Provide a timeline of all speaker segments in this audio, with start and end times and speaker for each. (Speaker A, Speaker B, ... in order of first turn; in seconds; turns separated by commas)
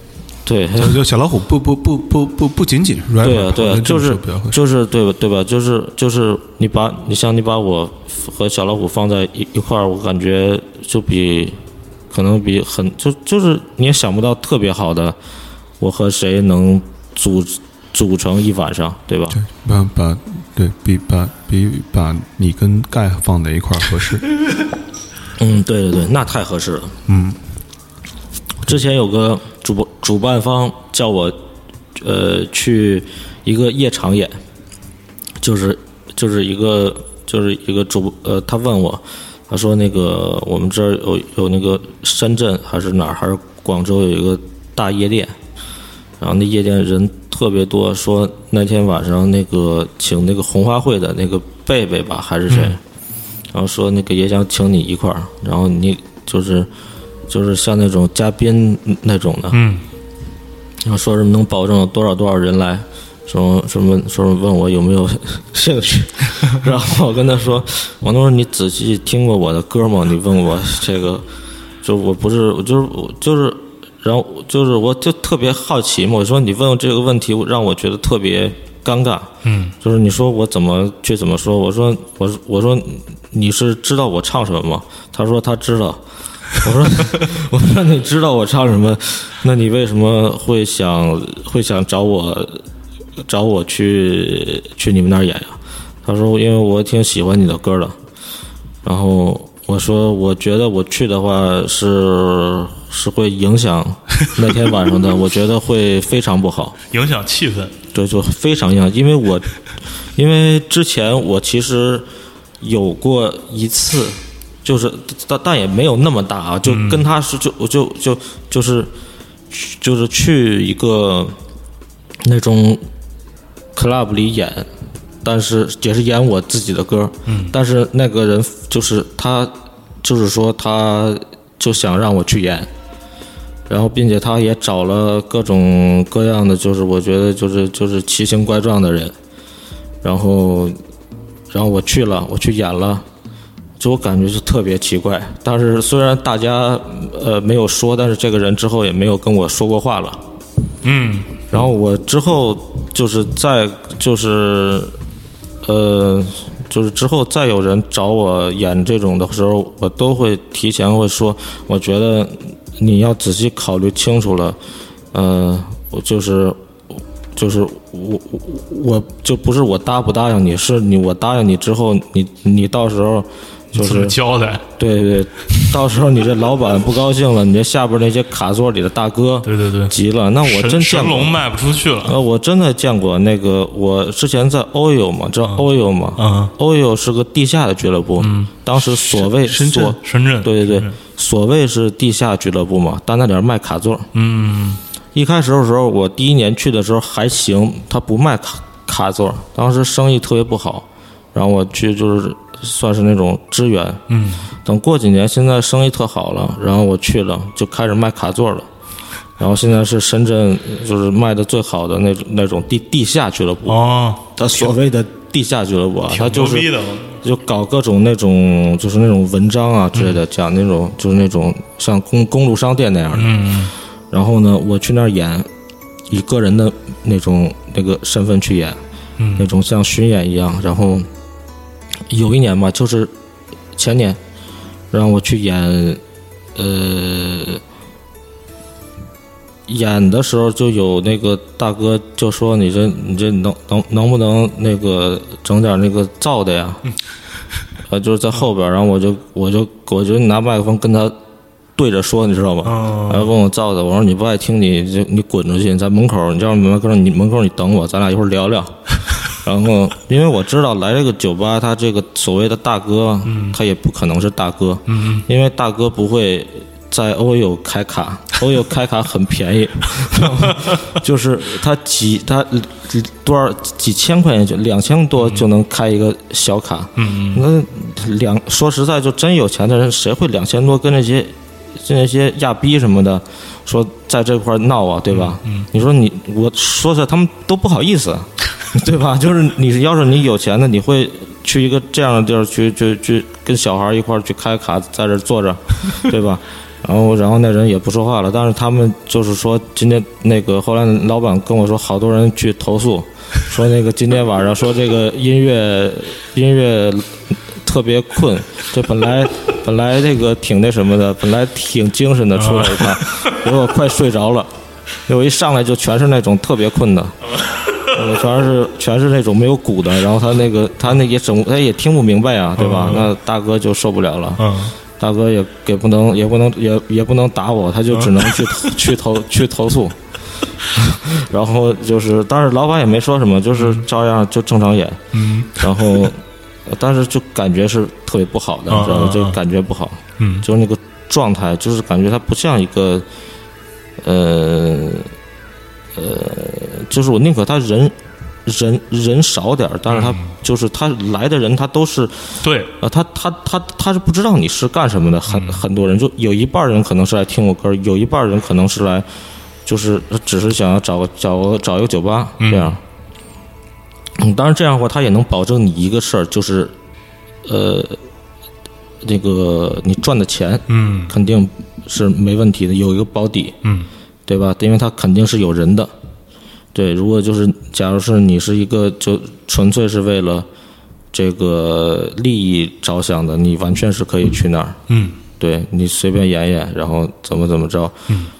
Speaker A: 0.5-1.0, Speaker B: 0.8-4.6, Speaker A: 3.2-11.6, Speaker A: 12.1-15.2, Speaker A: 15.8-19.4, Speaker B: 19.3-24.2, Speaker A: 25.4-27.0, Speaker B: 27.1-27.4, Speaker A: 28.6-31.4, Speaker A: 31.9-34.3, Speaker A: 35.4-45.3, Speaker A: 46.2-52.8, Speaker C: 52.5-52.8, Speaker A: 53.5-56.7, Speaker A: 57.3-59.6, Speaker C: 59.5-59.8, Speaker A: 60.8-71.2, Speaker A: 71.8-86.0, Speaker C: 79.4-79.7, Speaker A: 86.5-92.6, Speaker A: 93.2-98.0, Speaker A: 98.8-106.8, Speaker C: 106.9-107.7, Speaker A: 107.9-109.5, Speaker A: 110.1-112.1, Speaker A: 112.6-118.9, Speaker C: 116.7-117.0, Speaker A: 119.5-121.4, Speaker A: 122.2-122.8, Speaker A: 123.7-124.7, Speaker A: 125.2-132.7, Speaker C: 127.3-127.5, Speaker A: 133.7-139.1, Speaker A: 140.0-140.8, Speaker A: 141.5-143.0, Speaker A: 143.8-150.2, Speaker C: 150.8-151.5, Speaker A: 151.5-154.9, Speaker A: 155.6-164.6, Speaker A: 165.1-166.6, Speaker A: 167.3-174.2, Speaker C: 173.7-174.6, Speaker A: 174.8-181.4, Speaker C: 179.4-182.2, Speaker A: 182.0-194.1, Speaker C: 186.2-186.5, Speaker C: 188.2-188.5, Speaker C: 189.5-190.9, Speaker C: 194.1-194.8, Speaker A: 195.1-204.0, Speaker C: 204.1-204.4, Speaker A: 204.6-208.7, Speaker A: 209.4-213.8, Speaker C: 213.7-214.7, Speaker A: 214.3-223.5, Speaker C: 216.1-217.2, Speaker C: 219.9-220.2, Speaker C: 223.1-223.7, Speaker A: 224.1-225.5, Speaker A: 226.1-228.8, Speaker C: 229.2-229.5, Speaker A: 229.4-231.1, Speaker A: 232.1-233.1, Speaker A: 233.7-234.2, Speaker A: 234.9-236.0, Speaker A: 236.6-237.6, Speaker A: 239.7-246.8, Speaker A: 247.9-251.1, Speaker A: 251.8-314.5, Speaker C: 252.6-253.3, Speaker C: 263.2-263.6, Speaker C: 264.9-265.2, Speaker C: 275.2-275.4, Speaker C: 277.0-277.4, Speaker C: 285.1-285.7, Speaker C: 312.4-313.3, Speaker A: 315.1-317.1, Speaker A: 317.9-324.4, Speaker C: 322.6-323.1, Speaker C: 324.4-324.7, Speaker A: 325.0-330.0, Speaker C: 327.9-328.7, Speaker A: 330.7-335.0, Speaker C: 333.6-333.8, Speaker C: 335.1-336.1, Speaker A: 335.5-343.1, Speaker C: 338.7-339.4, Speaker C: 340.2-340.4, Speaker A: 344.0-345.1, Speaker A: 345.9-359.1, Speaker C: 349.9-350.3, Speaker C: 352.4-352.7, Speaker C: 355.3-355.6, Speaker A: 359.6-362.8, Speaker C: 362.4-362.7, Speaker A: 364.2-366.7, Speaker A: 367.4-368.0, Speaker A: 369.0-373.5, Speaker C: 370.7-371.1, Speaker A: 374.3-375.9, Speaker A: 376.7-380.5, Speaker A: 381.1-384.8, Speaker C: 384.9-385.2, Speaker A: 385.4-387.9